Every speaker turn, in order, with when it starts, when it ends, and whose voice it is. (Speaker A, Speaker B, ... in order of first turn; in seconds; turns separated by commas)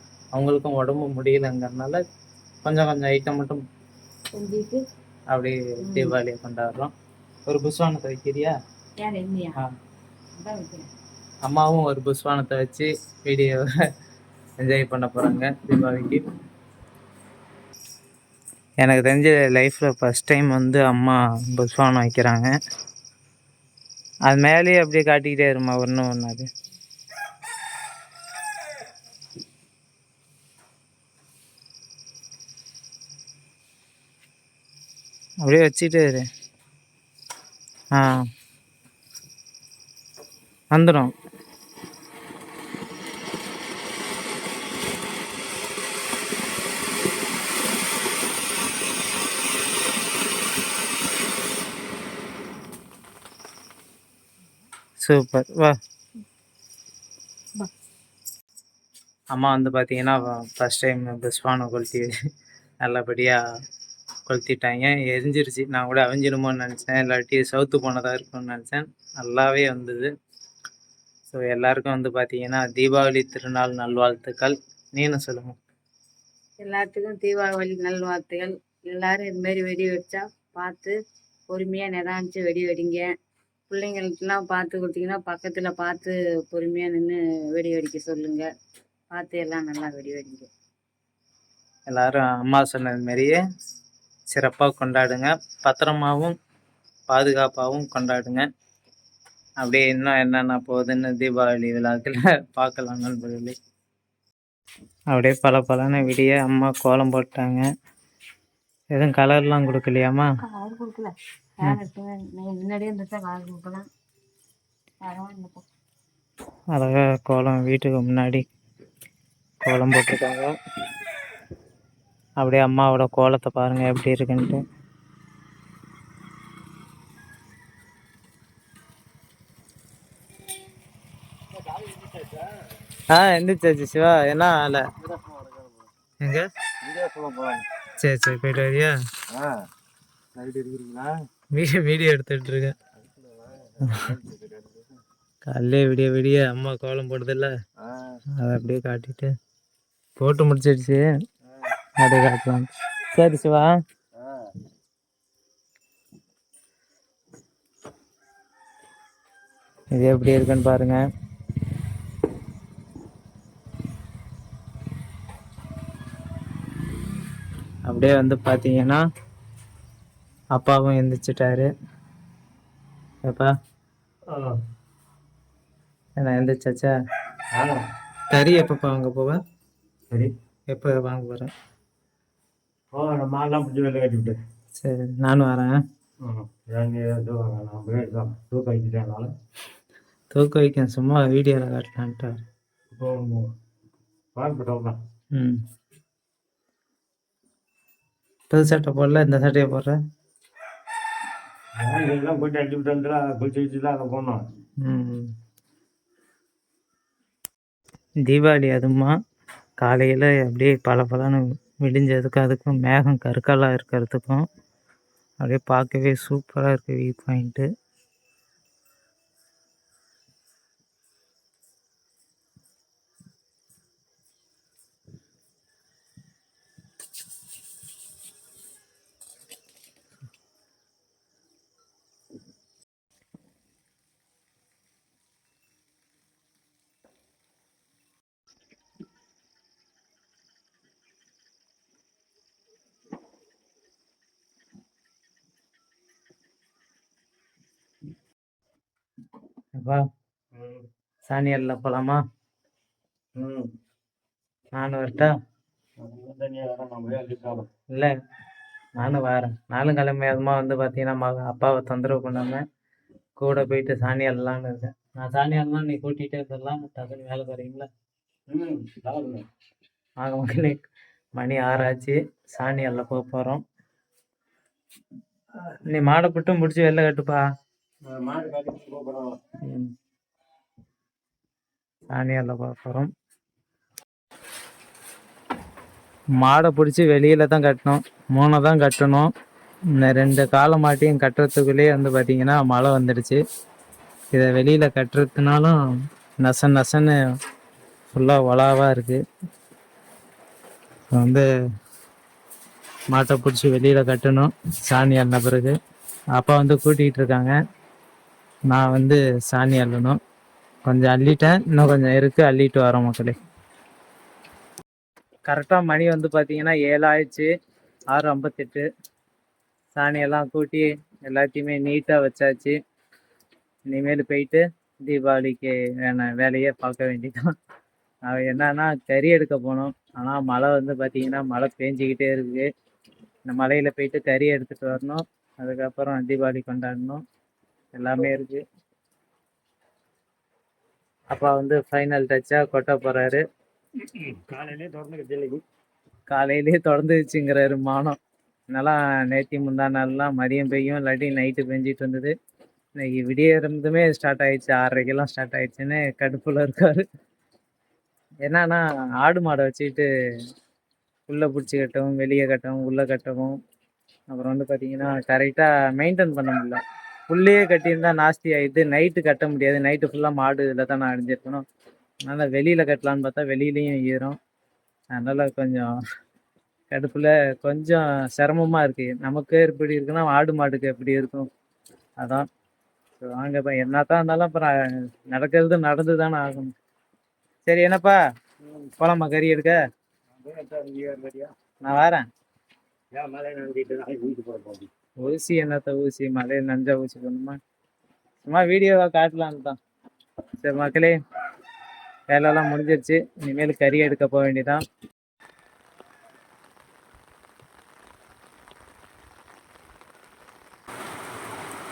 Speaker A: 0.3-2.0, Speaker A: 2.6-3.6, Speaker B: 4.3-4.8, Speaker A: 5.3-6.9, Speaker B: 5.8-6.2, Speaker A: 7.5-8.5, Speaker B: 9.0-9.6, Speaker B: 10.4-10.9, Speaker A: 11.4-13.7, Speaker A: 14.6-16.2, Speaker A: 18.8-22.5, Speaker A: 24.3-26.5, Speaker A: 35.4-36.3, Speaker A: 37.9-38.2, Speaker A: 40.7-41.1, Speaker A: 55.0-55.8, Speaker A: 59.3-62.1, Speaker A: 62.8-63.4, Speaker A: 64.3-70.1, Speaker A: 71.3-75.6, Speaker B: 76.6-80.9, Speaker B: 81.5-83.0, Speaker B: 83.7-88.5, Speaker B: 89.1-90.5, Speaker A: 91.9-93.4, Speaker A: 94.3-96.3, Speaker A: 97.1-98.5, Speaker A: 99.6-103.5, Speaker A: 105.1-107.7, Speaker A: 108.9-110.3, Speaker B: 110.4-113.9, Speaker B: 115.0-115.7, Speaker A: 116.7-118.4, Speaker A: 119.6-120.5, Speaker A: 122.4-124.6, Speaker C: 131.7-132.4, Speaker A: 133.1-134.8, Speaker C: 135.0-135.9, Speaker A: 136.2-136.5, Speaker C: 136.8-137.7, Speaker A: 138.0-138.9, Speaker C: 139.3-139.6, Speaker C: 140.3-141.1, Speaker A: 141.5-142.7, Speaker C: 143.2-144.8, Speaker A: 145.5-147.5, Speaker C: 147.8-148.2, Speaker A: 148.4-149.3, Speaker A: 150.2-151.0, Speaker A: 152.0-153.7, Speaker C: 154.2-154.5, Speaker A: 159.9-161.0, Speaker A: 167.8-169.0, Speaker A: 170.6-171.7, Speaker A: 173.2-173.5, Speaker C: 174.3-174.6, Speaker A: 176.2-176.9, Speaker C: 177.5-177.8, Speaker A: 178.3-179.4, Speaker A: 180.7-181.5, Speaker C: 182.9-184.4, Speaker A: 184.8-185.8, Speaker C: 186.2-189.3, Speaker A: 190.3-192.3, Speaker C: 192.9-193.5, Speaker C: 194.3-195.0, Speaker A: 195.3-195.6, Speaker A: 198.5-200.0, Speaker C: 201.8-204.5, Speaker A: 204.8-205.3, Speaker A: 208.3-209.1, Speaker A: 209.8-214.4, Speaker A: 215.4-217.7, Speaker C: 250.5-250.8, Speaker A: 251.3-252.2, Speaker C: 253.3-253.7, Speaker A: 254.7-255.3, Speaker C: 256.0-257.7, Speaker A: 259.0-262.6, Speaker A: 263.4-267.9, Speaker C: 268.5-269.5, Speaker A: 270.2-273.6, Speaker A: 275.8-277.4, Speaker C: 278.0-279.4, Speaker A: 279.6-279.9, Speaker A: 282.1-283.1, Speaker A: 286.4-289.3, Speaker A: 290.0-293.4, Speaker A: 294.3-295.8, Speaker A: 296.4-297.2, Speaker A: 298.1-299.2, Speaker A: 301.1-301.5, Speaker A: 303.1-305.8, Speaker A: 306.4-307.5, Speaker A: 308.7-310.2, Speaker A: 310.9-313.4, Speaker A: 315.5-317.5, Speaker A: 318.1-318.9, Speaker A: 320.0-322.8, Speaker A: 323.9-327.4, Speaker A: 328.3-332.7, Speaker A: 333.5-337.2, Speaker A: 338.0-338.6, Speaker A: 341.3-343.4, Speaker C: 344.0-345.6, Speaker A: 346.3-348.2, Speaker A: 348.7-352.3, Speaker A: 353.0-357.0, Speaker A: 358.4-360.1, Speaker A: 361.3-363.5, Speaker A: 364.3-366.8, Speaker A: 367.3-371.6, Speaker A: 372.2-374.4, Speaker A: 375.1-375.9, Speaker A: 376.9-381.5, Speaker A: 382.2-382.5, Speaker A: 383.2-384.7, Speaker A: 385.3-386.7, Speaker A: 387.7-388.2, Speaker C: 388.6-388.9, Speaker A: 389.0-389.8, Speaker C: 390.4-391.5, Speaker A: 391.8-392.2, Speaker C: 393.1-394.9, Speaker A: 395.2-397.6, Speaker A: 398.4-399.8, Speaker A: 400.6-401.2, Speaker A: 402.3-404.8